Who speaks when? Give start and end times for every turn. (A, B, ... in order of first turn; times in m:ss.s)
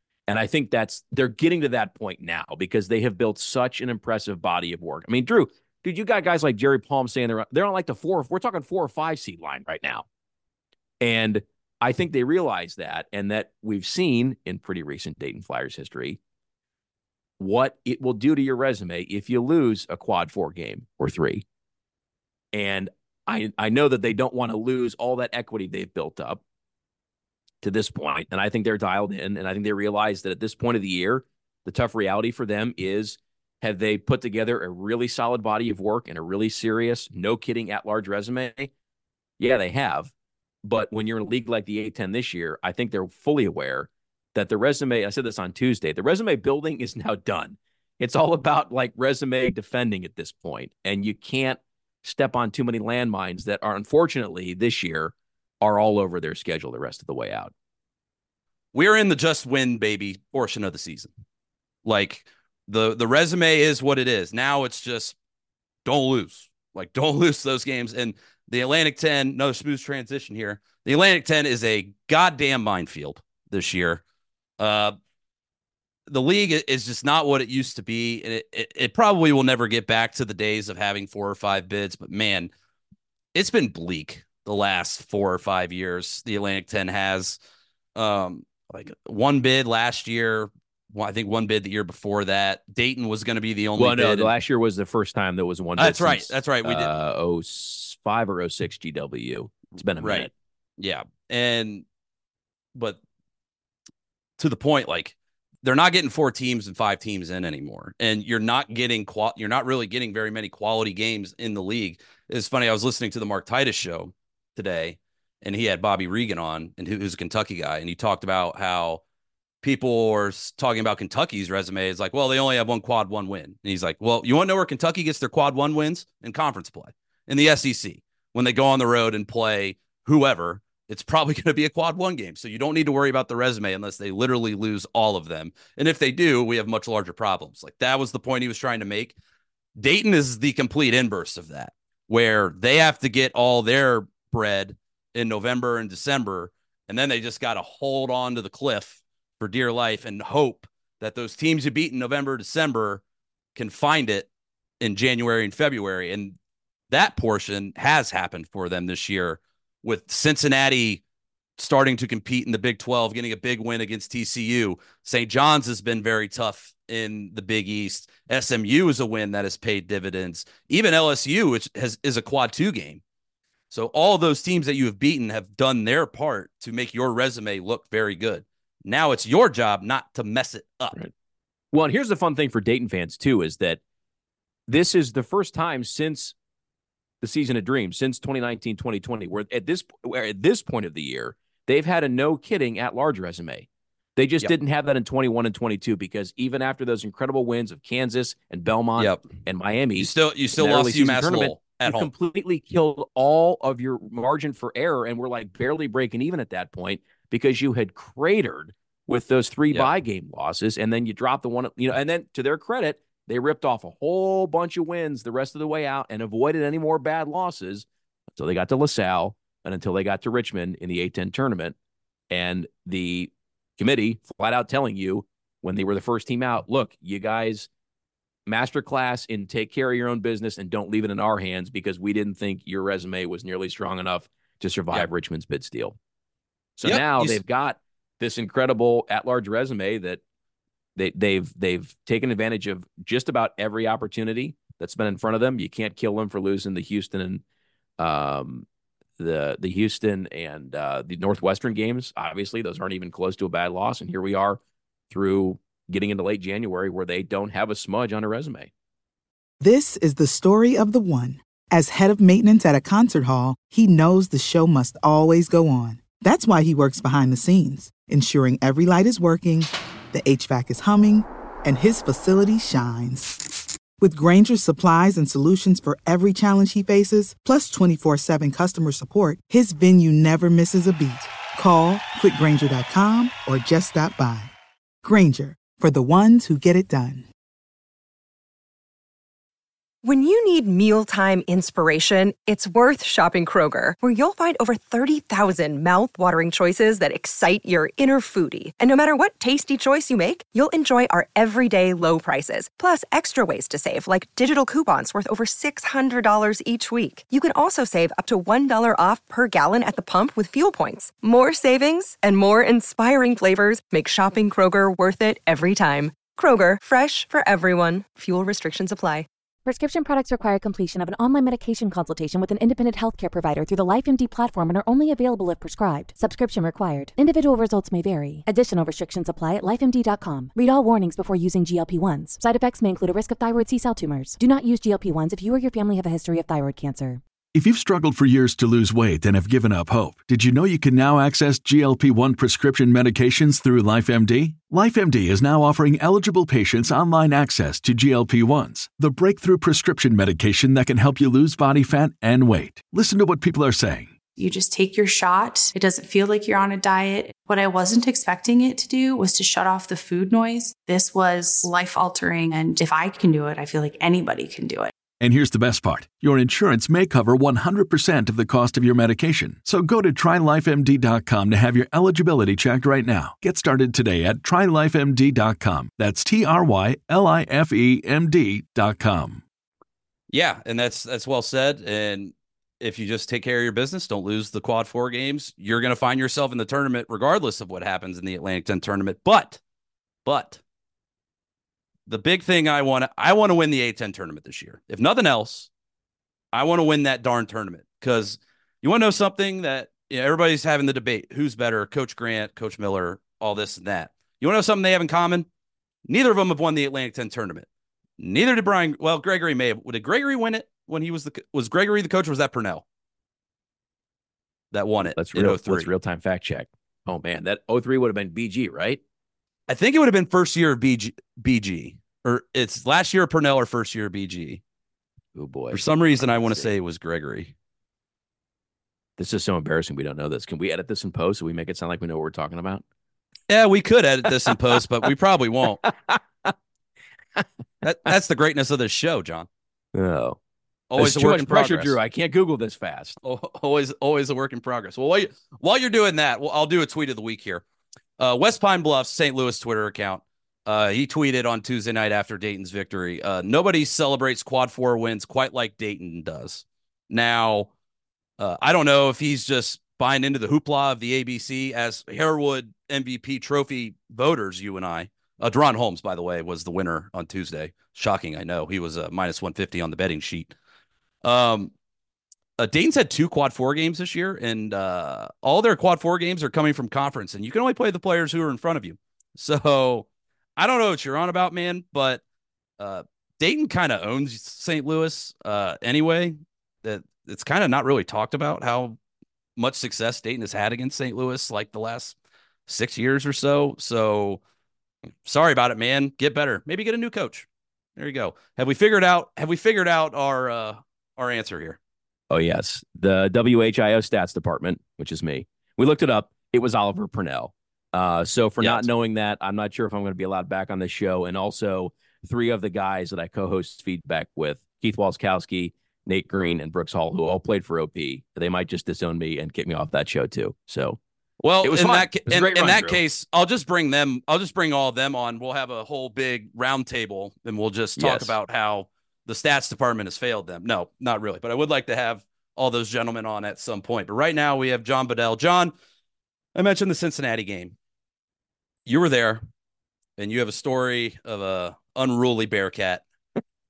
0:00.3-0:10.0 A
0:11.0-0:16.2 A
0:17.4-0:21.4 A
0:22.5-0:26.4 A
0:27.6-0:38.7 A
0:39.4-0:40.1 A
0:40.6-0:57.5 A
0:58.7-1:01.1 B
1:01.8-1:05.2 B
1:05.8-1:14.0 B
1:14.6-1:14.9 B
1:16.1-1:22.5 B
1:23.3-1:27.4 B
1:27.9-1:34.3 B
1:33.8-1:40.3 A
1:35.8-1:36.9 B
1:40.0-1:41.8 B
1:44.4-1:59.0 B
1:59.6-2:19.1 B
2:19.8-2:33.0 B
2:33.5-2:34.3 B
2:34.8-2:36.4 B
2:36.9-2:41.0 B
2:41.6-2:53.0 B
2:53.7-3:01.0 B
3:01.7-3:03.8 A
3:04.7-3:06.3 A
3:07.2-3:41.7 A
3:19.0-3:19.4 B
3:20.0-3:22.1 B
3:42.3-3:47.7 A
3:48.5-3:56.0 A
3:56.8-4:00.2 A
3:56.8-3:57.4 B
4:01.0-4:07.4 A
4:08.0-4:08.6 A
4:09.2-4:18.7 A
4:19.6-4:33.3 C
4:34.0-4:44.5 C
4:45.0-4:47.3 C
4:50.0-5:19.3 D
5:19.6-5:37.2 E
5:37.5-5:54.1 F
5:54.4-6:04.9 G
6:05.2-6:19.4 F
6:20.3-6:29.6 B
6:30.2-6:30.6 B
6:32.1-6:35.7 B
6:36.5-6:45.5 B
6:46.1-6:47.6 B
6:48.2-6:52.8 B
6:54.7-6:55.9 B
6:55.0-6:59.0 A
6:59.7-7:04.6 B
7:05.4-7:06.7 A
7:05.7-7:07.5 B
7:09.2-7:12.8 A
7:13.5-7:15.8 B
7:15.8-7:16.5 A
7:17.8-7:19.5 B
7:19.9-7:20.4 A
7:20.9-7:22.0 B
7:21.0-7:23.2 A
7:23.2-7:27.6 B
7:28.2-7:37.7 B
7:38.4-7:50.5 B
7:51.2-7:51.7 B
7:52.6-8:02.2 B
8:02.8-8:09.0 B
8:09.6-8:12.1 B
8:12.7-8:14.4 B
8:15.2-8:21.8 B
8:22.3-8:41.0 A
8:28.6-8:28.9 B
8:41.4-8:55.7 B
8:41.6-8:43.0 A
8:48.0-8:48.3 A
8:56.5-8:57.7 B
8:58.8-8:59.4 B
9:00.2-9:03.0 B